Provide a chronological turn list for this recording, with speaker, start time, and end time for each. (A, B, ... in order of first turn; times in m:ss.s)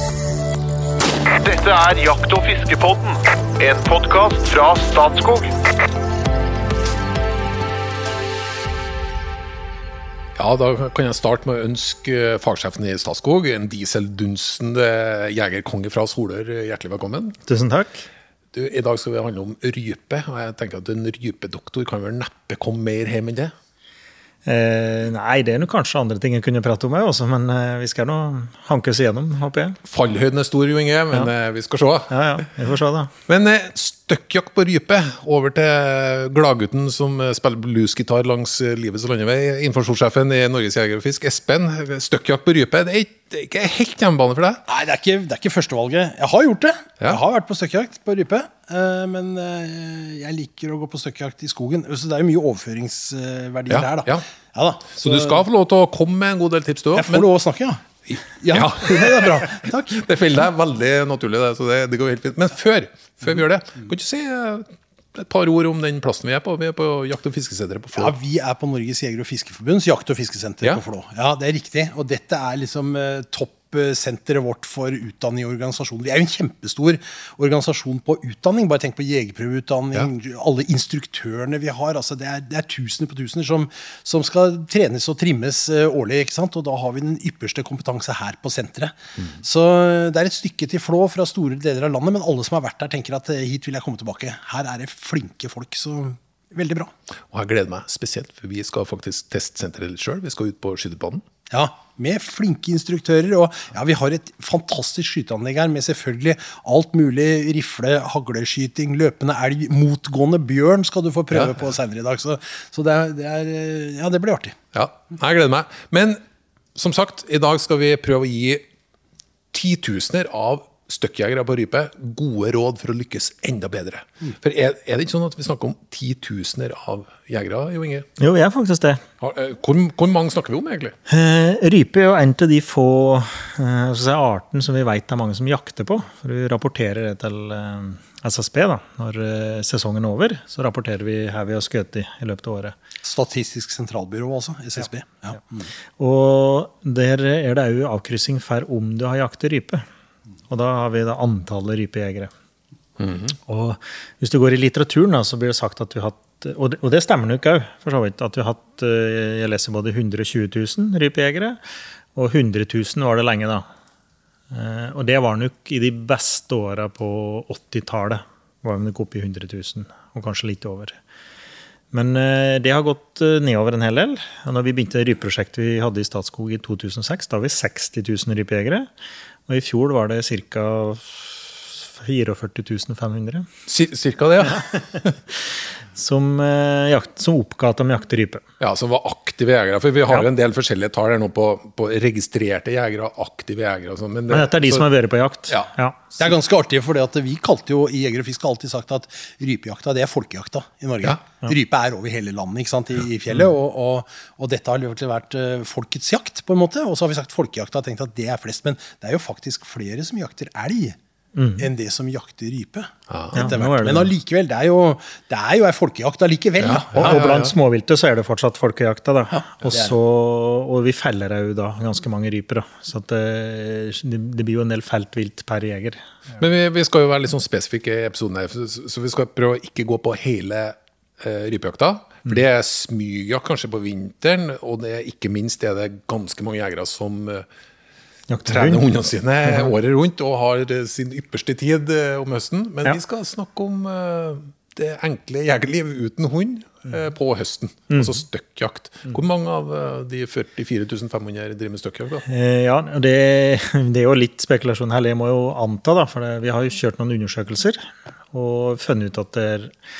0:01.4-0:05.5 A
0:10.4-0:17.4 B
0:17.4-0:18.0 C
0:18.5-0:23.5 B
0:24.4-0:29.8 C
0:29.8-0:32.4 B
0:32.1-0:33.1 C
0:33.3-0:44.6 B
0:44.7-0:55.4 D
0:53.7-0:54.2 B
0:55.0-0:57.3 B
0:56.9-1:00.0 D
0:58.1-1:08.1 B
1:07.9-1:36.9 D
1:37.3-1:41.2 B
1:41.5-1:54.6 D
1:54.7-1:56.2 B
1:56.7-1:58.6 B
1:59.5-2:08.1 B
2:08.2-2:09.0 C
2:09.2-2:11.0 B
2:11.1-2:22.8 C
2:23.0-2:25.7 D
2:26.0-2:29.8 C
2:30.5-2:32.3 C
2:33.0-2:33.3 B
2:33.4-2:41.6 C
2:42.1-2:43.6 C
2:44.5-2:51.0 C
2:51.9-2:58.9 C
2:59.5-3:03.5 C
3:03.7-3:05.1 B
3:05.9-3:08.4 C
3:08.6-3:14.9 B
3:14.3-3:16.0 C
3:16.2-3:31.0 D
3:31.4-3:31.7 C
3:31.6-3:37.2 D
3:33.1-3:33.5 B
3:33.3-3:34.1 C
3:36.6-3:37.5 B
3:36.9-3:46.0 C
3:39.3-3:40.0 D
3:46.4-3:57.4 B
3:58.3-3:58.8 C
3:58.5-4:12.2 B
3:59.4-3:59.7 C
4:07.9-4:08.2 C
4:12.3-4:19.7 C